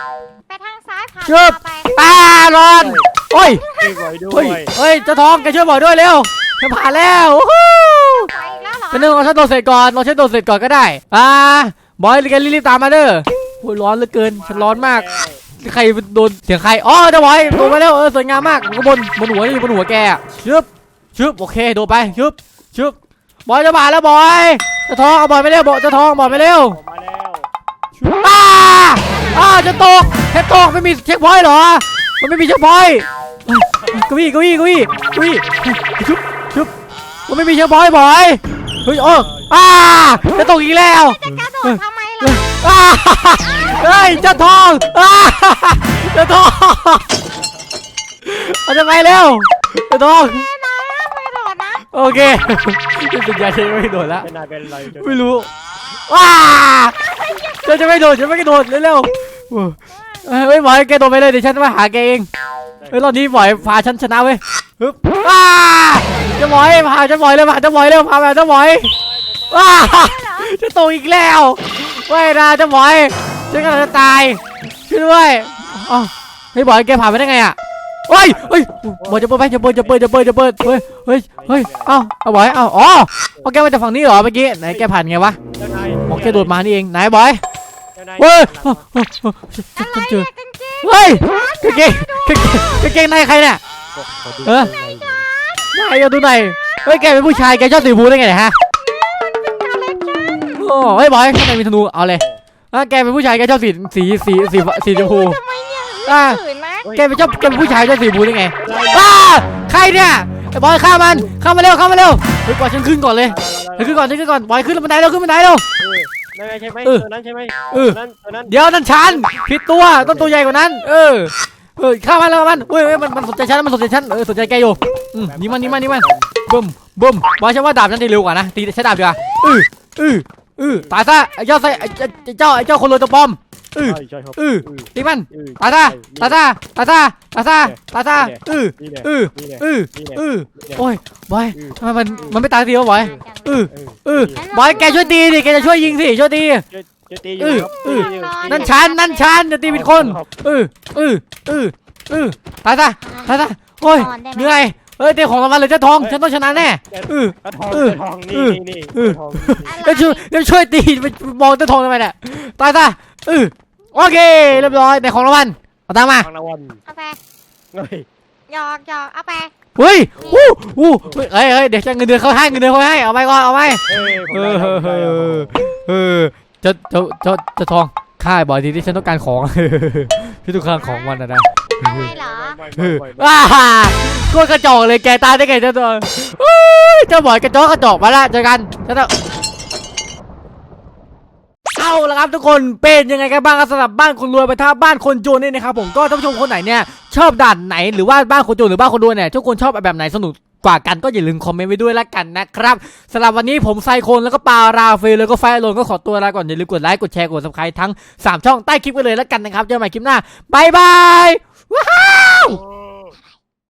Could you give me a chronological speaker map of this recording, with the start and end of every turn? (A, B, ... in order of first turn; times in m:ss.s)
0:00.5-0:02.2 A
0:01.2-0:03.6 B
0:02.8-0:03.1 C
0:03.3-0:04.0 A
0:03.7-0:04.7 C
0:04.3-0:08.3 B
0:08.1-0:09.2 A
0:08.9-0:26.8 B
0:14.4-0:15.4 C
0:26.1-0:27.5 C
0:28.0-0:36.7 B
0:28.9-0:30.1 A
0:33.8-0:34.4 C
0:35.4-0:35.8 C
0:37.3-0:47.0 B
0:39.0-0:39.5 C
0:40.1-0:40.4 C
0:41.2-0:42.6 A
0:43.4-0:43.9 A
0:44.3-0:44.7 C
0:48.2-0:50.4 B
0:50.1-0:51.9 A
0:51.9-0:54.3 B
0:54.2-0:55.5 C
0:54.9-0:55.5 B
0:56.1-0:57.0 B
0:56.9-0:58.0 A
0:57.6-1:02.3 B
0:59.9-1:00.3 A
1:02.8-1:03.2 C
1:02.9-1:08.9 B
1:09.5-1:17.6 B
1:09.5-1:10.5 A
1:18.1-1:25.4 B
1:18.2-1:20.1 C
1:21.4-1:21.9 C
1:25.6-1:26.5 C
1:26.1-1:27.4 B
1:27.9-1:28.8 C
1:28.2-1:30.3 B
1:29.8-1:33.1 A
1:30.8-1:33.6 B
1:33.9-1:35.2 C
1:34.4-1:34.7 B
1:35.3-1:37.2 A
1:35.7-1:38.6 B
1:38.7-1:40.7 A
1:40.5-1:45.4 B
1:44.8-1:46.9 A
1:46.0-1:55.6 B
1:46.8-1:47.9 C
1:48.6-1:49.2 C
1:48.6-1:49.0 A
1:53.3-1:54.2 C
1:55.8-1:59.3 C
1:57.7-2:26.6 B
1:59.8-2:00.4 C
2:02.8-2:03.2 C
2:04.3-2:06.3 C
2:10.6-2:11.0 C
2:13.8-2:16.4 C
2:17.6-2:20.8 C
2:21.5-2:22.4 C
2:22.0-2:23.7 A
2:23.7-2:24.4 C
2:24.3-2:25.5 A
2:26.7-2:28.7 C
2:27.4-2:46.3 B
2:27.4-2:29.3 A
2:29.6-2:30.2 C
2:33.0-2:34.6 A
2:36.0-2:39.7 C
2:39.6-2:40.3 A
2:44.5-2:44.8 C
2:46.2-2:46.8 C
2:46.8-2:47.2 A
2:47.7-2:48.1 C
2:48.5-2:49.5 A
2:49.8-3:02.1 B
2:50.2-2:50.5 A
2:53.9-2:55.5 C
3:00.7-3:01.2 A
3:01.8-3:02.6 A
3:01.8-3:03.4 C
3:02.7-3:09.1 B
3:11.8-3:32.6 B